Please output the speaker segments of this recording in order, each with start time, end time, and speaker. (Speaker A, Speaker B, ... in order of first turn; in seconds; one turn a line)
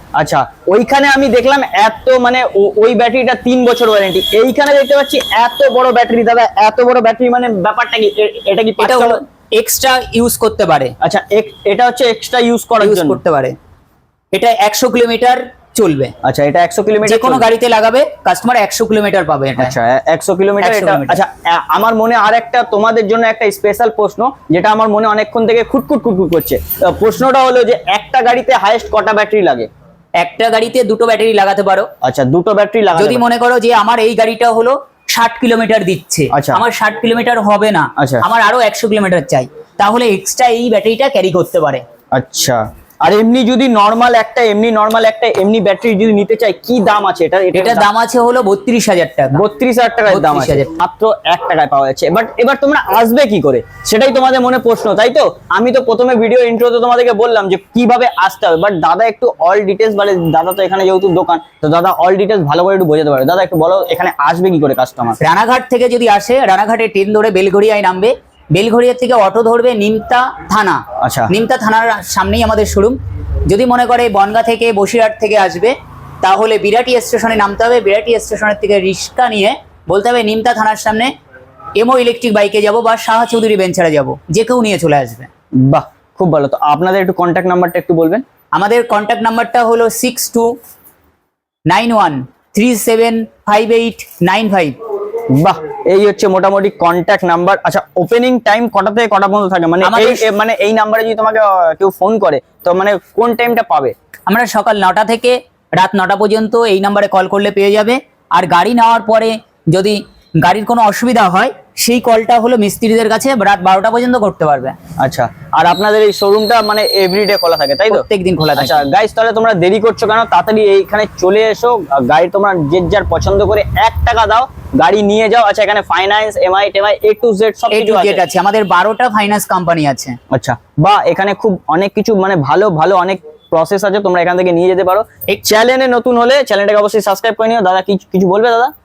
Speaker A: 0.2-9.2
Speaker B: 8.8-10.9
Speaker A: 11.0-13.2
Speaker B: 12.8-13.6
Speaker B: 14.3-16.1
Speaker A: 16.2-17.5
Speaker B: 17.1-19.8
Speaker A: 19.6-29.7
Speaker B: 20.6-21.2
Speaker B: 30.2-31.9
Speaker A: 32.0-33.2
Speaker B: 33.0-41.8
Speaker A: 36.3-36.6
Speaker A: 38.0-38.2
Speaker A: 42.1-47.9
Speaker B: 47.5-49.4
Speaker A: 49.3-65.2
Speaker B: 50.1-50.7
Speaker B: 65.2-81.1
Speaker A: 71.0-71.3
Speaker B: 81.8-85.3
Speaker A: 85.6-88.2
Speaker B: 88.5-90.6
Speaker B: 91.7-94.8
Speaker A: 95.3-104.0
Speaker B: 99.8-100.2
Speaker B: 104.3-114.8
Speaker A: 115.0-118.0
Speaker B: 117.9-118.8
Speaker A: 118.6-128.2
Speaker B: 127.7-130.2
Speaker A: 130.3-138.7
Speaker B: 135.3-135.6